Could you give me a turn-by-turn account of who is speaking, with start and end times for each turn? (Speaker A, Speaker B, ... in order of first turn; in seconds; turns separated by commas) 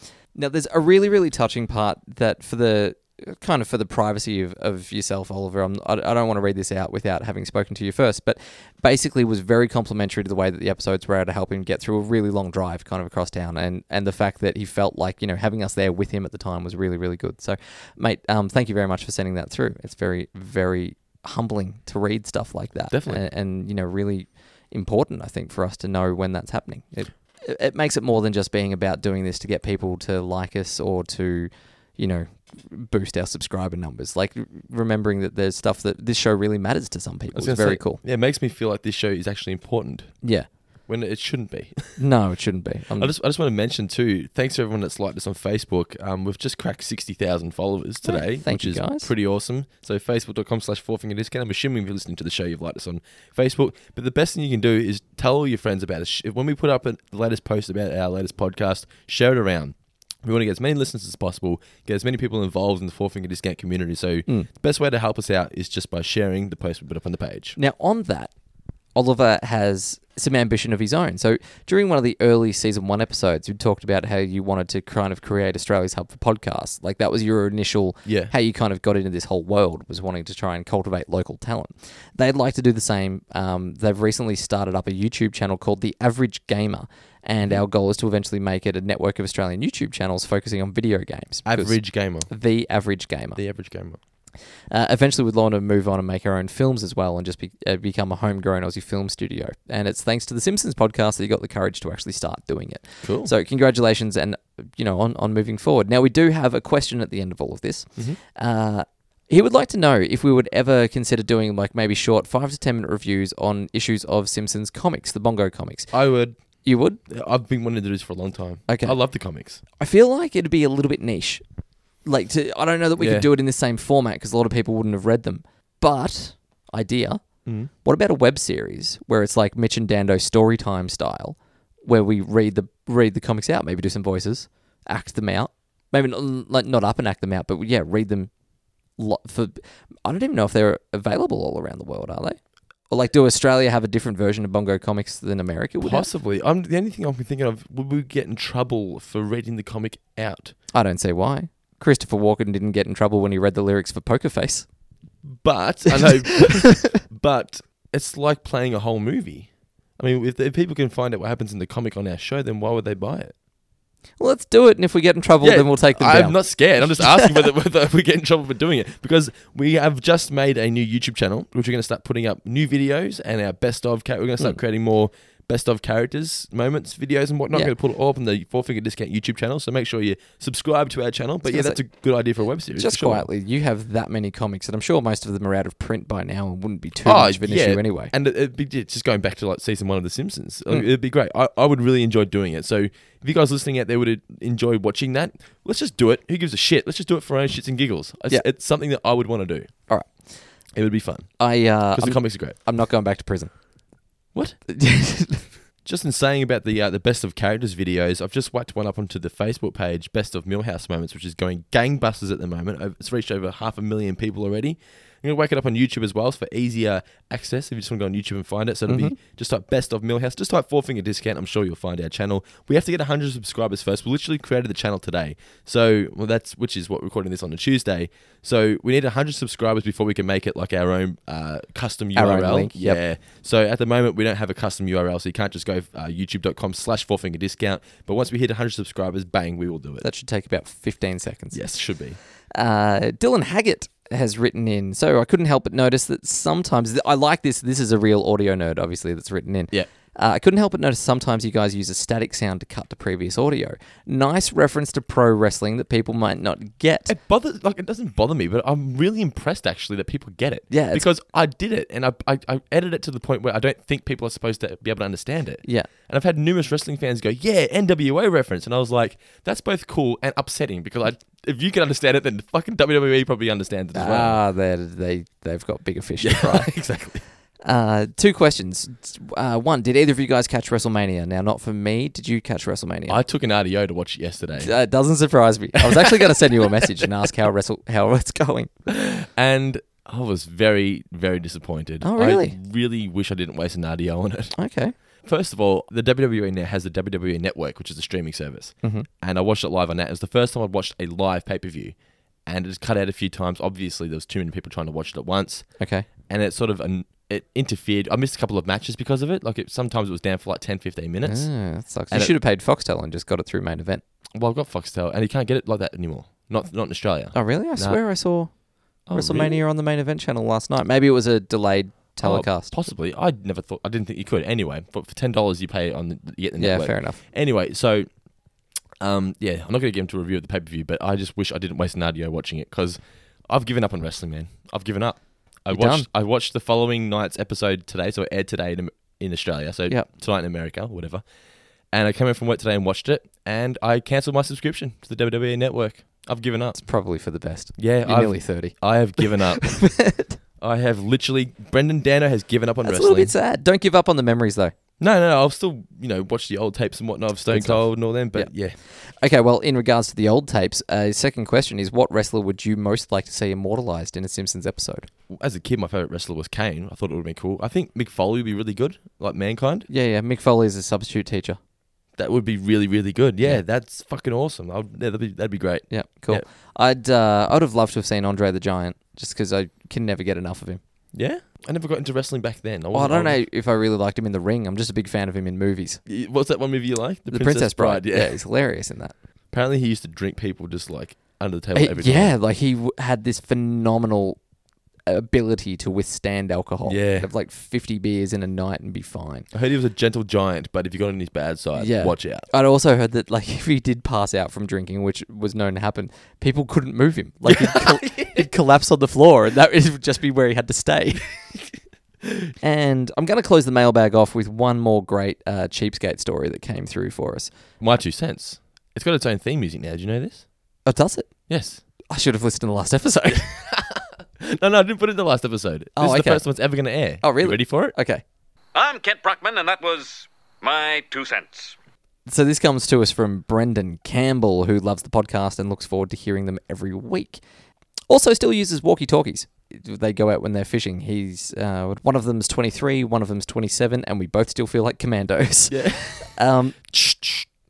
Speaker A: 0.3-38.0, Speaker B: 22.9-23.2, Speaker B: 37.3-40.2, Speaker A: 40.2-40.5, Speaker B: 40.9-42.0, Speaker A: 42.0-43.1, Speaker B: 43.0-67.6, Speaker A: 48.0-49.1, Speaker A: 67.6-68.3, Speaker A: 69.0-93.4, Speaker B: 78.0-78.3, Speaker B: 91.5-92.3, Speaker B: 93.3-94.0, Speaker A: 94.7-115.9, Speaker B: 103.0-103.3, Speaker B: 115.9-116.4, Speaker A: 116.6-117.0, Speaker B: 117.1-119.6, Speaker A: 118.7-119.0, Speaker A: 119.8-121.4, Speaker A: 122.0-138.3, Speaker B: 123.0-123.3, Speaker B: 127.5-127.7, Speaker A: 139.0-142.4, Speaker A: 142.9-146.1, Speaker B: 145.8-150.6, Speaker A: 150.7-154.7, Speaker B: 155.2-163.3, Speaker A: 155.9-156.9, Speaker A: 164.2-167.4, Speaker B: 165.4-183.3, Speaker A: 181.5-181.8, Speaker A: 182.8-188.1, Speaker B: 187.0-199.7, Speaker A: 199.9-200.4, Speaker B: 200.8-202.6, Speaker A: 201.4-203.6, Speaker B: 204.3-204.6, Speaker A: 204.7-205.5, Speaker B: 205.8-240.1, Speaker A: 218.9-219.2, Speaker A: 232.2-233.0, Speaker A: 240.0-241.6, Speaker B: 241.5-242.2, Speaker A: 242.5-257.1, Speaker B: 257.1-274.4, Speaker A: 260.7-261.1, Speaker A: 265.6-265.9, Speaker A: 273.9-276.7, Speaker B: 276.2-277.2, Speaker A: 277.6-283.2, Speaker B: 283.1-284.7, Speaker A: 284.6-288.7, Speaker B: 285.8-287.1, Speaker B: 288.9-294.6, Speaker A: 292.0-292.6, Speaker A: 294.6-294.9, Speaker B: 295.2-311.5, Speaker A: 305.8-306.1, Speaker A: 311.2-314.0, Speaker B: 312.1-312.4, Speaker B: 314.4-318.0, Speaker A: 317.3-322.7, Speaker B: 319.1-319.6, Speaker B: 322.2-328.1, Speaker A: 326.6-327.2, Speaker B: 329.0-341.2, Speaker A: 335.7-336.1, Speaker B: 341.9-346.8, Speaker A: 346.8-350.4, Speaker B: 347.8-350.0, Speaker B: 350.6-353.3, Speaker A: 352.8-354.7, Speaker B: 355.0-358.8, Speaker A: 357.5-365.1, Speaker B: 365.3-369.9, Speaker A: 369.9-371.6, Speaker B: 372.1-376.4, Speaker A: 375.9-380.8, Speaker B: 381.1-383.4, Speaker A: 382.9-386.0, Speaker B: 386.1-388.4, Speaker A: 387.3-389.1, Speaker B: 389.5-392.4, Speaker A: 391.8-394.4, Speaker A: 395.1-399.5, Speaker B: 396.9-397.3, Speaker B: 399.5-402.5, Speaker A: 401.8-411.3, Speaker B: 407.5-408.5, Speaker A: 412.6-417.5, Speaker B: 417.8-420.5, Speaker A: 420.9-421.3, Speaker B: 421.5-421.8, Speaker A: 422.1-423.5, Speaker B: 423.4-428.0, Speaker A: 426.0-426.5, Speaker A: 427.2-428.2, Speaker C: 428.8-431.8, Speaker A: 432.3-437.4, Speaker A: 438.1-446.9, Speaker B: 445.7-446.3, Speaker B: 446.9-447.4